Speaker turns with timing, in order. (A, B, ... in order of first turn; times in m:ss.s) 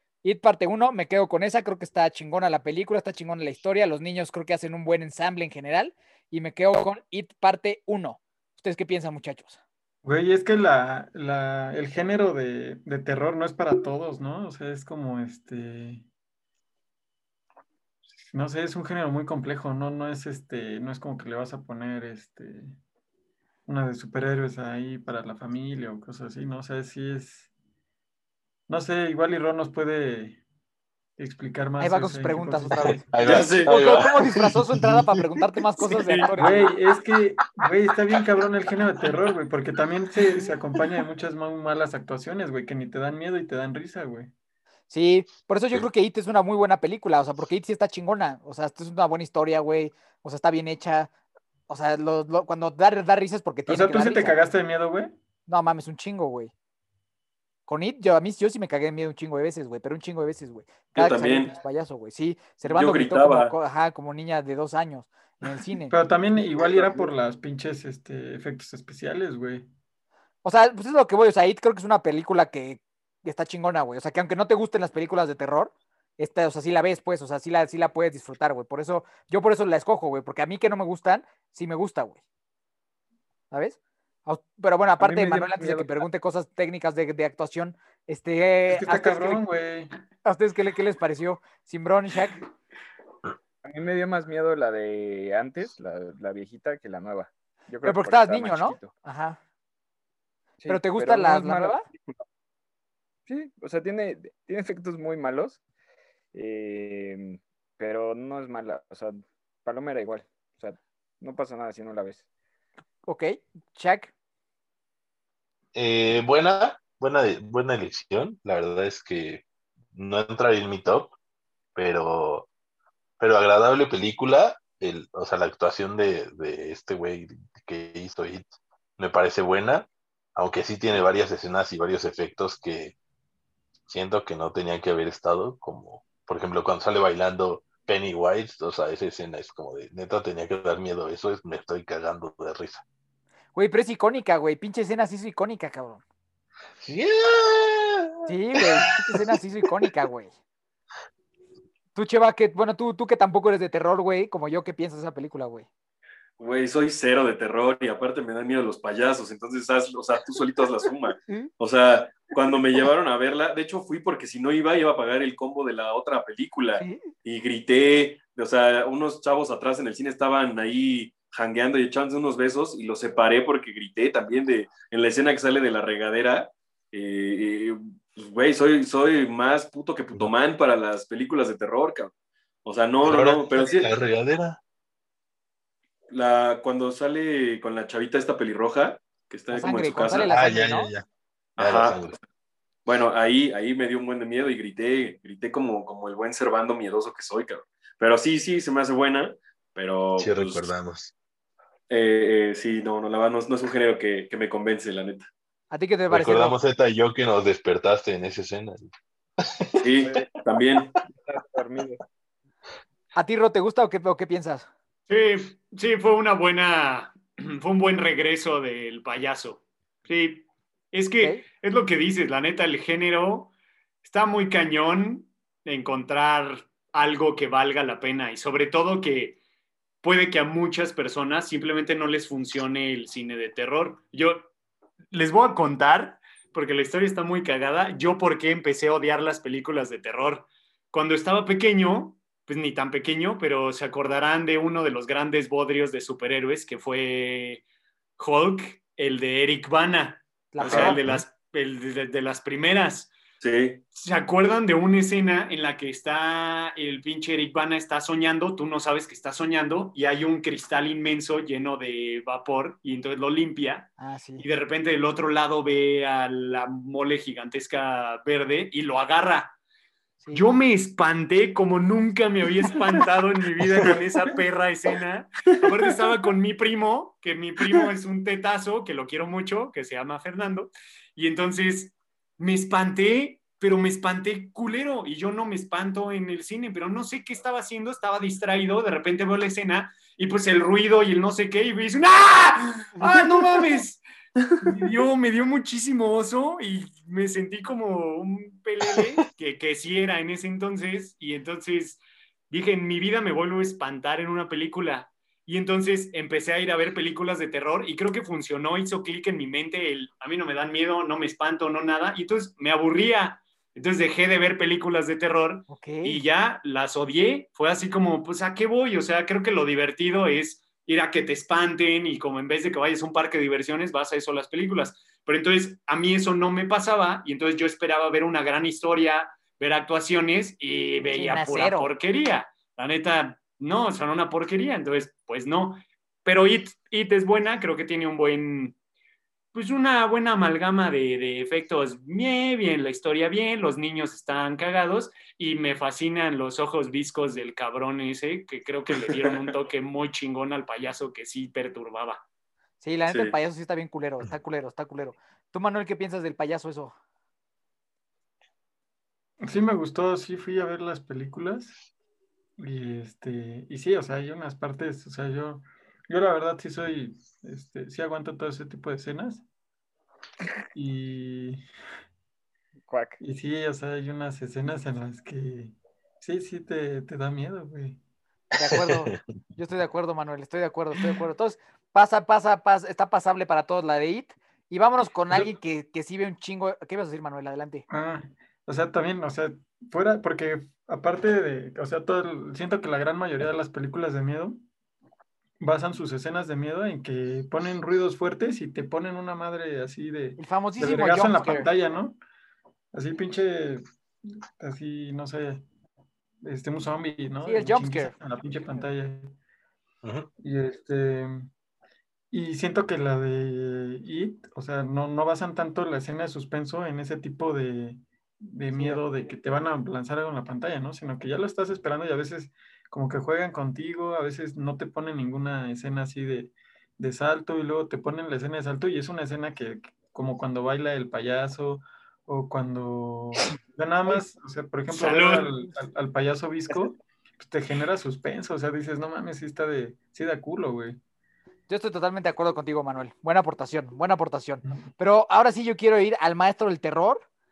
0:00.2-0:09.6 A
0:10.0-0:16.0 B
0:18.2-0:22.8 B
0:23.6-0:27.5 B
0:28.7-0:30.4 B
0:31.2-0:33.0 B
0:31.8-0:36.7 A
0:32.8-0:35.1 C
0:33.2-0:33.8 D
0:35.9-0:36.3 D
0:36.4-0:44.3 B
0:44.9-0:51.1 A
0:51.7-0:54.4 A
0:53.7-0:55.1 B
0:55.5-0:56.5 A
0:57.7-1:06.0 A
1:00.9-1:01.5 D
1:02.6-1:03.5 D
1:05.9-1:09.7 B
1:06.8-1:07.0 D
1:10.4-1:22.2 A
1:23.5-1:29.4 A
1:25.0-1:25.7 B
1:25.1-1:25.8 E
1:28.7-1:29.9 B
1:30.2-1:32.4 A
1:33.6-1:38.9 E
1:37.8-1:39.4 A
1:40.6-1:42.2 E
1:40.7-1:41.8 A
1:43.3-1:45.6 E
1:46.3-1:52.2 E
1:53.1-1:54.1 A
1:55.7-1:59.4 C
1:59.9-2:01.1 C
2:01.7-2:02.5 C
2:03.2-2:12.9 C
2:13.9-2:22.8 C
2:23.5-2:26.0 A
2:26.8-2:29.2 C
2:28.2-2:30.3 A
2:31.9-2:35.6 A
2:36.4-3:02.1 D
2:46.8-2:47.0 A
3:02.6-3:03.9 D
3:03.0-3:04.6 C
3:06.1-3:10.3 D
3:09.5-3:10.9 A
3:10.3-3:11.0 C
3:11.6-3:12.1 D
3:11.6-3:12.1 C
3:12.8-3:20.7 D
3:20.2-3:21.1 C
3:21.9-3:25.3 D
3:25.7-3:26.6 A
3:26.1-3:28.9 C
3:29.4-3:29.8 C
3:29.8-3:30.9 D
3:30.0-3:30.3 E
3:31.1-3:32.0 E
3:33.1-3:34.6 A
3:35.1-3:43.5 F
3:44.0-3:49.4 F
3:50.0-3:54.5 F
3:55.1-4:07.6 F
4:08.2-4:13.1 F
4:10.5-4:11.0 A
4:10.6-4:11.2 C
4:10.6-4:11.0 D
4:13.4-4:13.8 D
4:13.9-4:29.6 F
4:24.0-4:24.4 A
4:30.3-4:54.0 F
4:33.9-4:34.2 B
4:54.4-4:54.6 D
4:54.6-5:38.7 F
5:15.7-5:16.2 A
5:31.2-5:31.9 A
5:39.5-5:52.2 F
5:48.9-5:49.4 D
5:52.8-5:56.9 A
5:53.1-5:53.4 D
5:59.4-6:01.8 B
6:02.6-6:09.4 B
6:10.7-6:11.6 B
6:12.9-6:13.2 E
6:13.2-6:18.0 B
6:18.6-6:19.2 C
6:18.6-6:27.8 A
6:27.9-6:34.6 B
6:35.6-6:42.2 B
6:40.4-6:41.7 A
6:42.9-6:43.8 B
6:44.6-6:45.6 B
6:46.4-6:49.3 B
6:47.4-6:48.1 A
6:50.0-6:50.3 C
6:50.4-6:51.5 B
6:52.3-7:21.0 B
6:58.7-6:59.0 A
7:14.9-7:15.5 F
7:21.7-7:27.2 A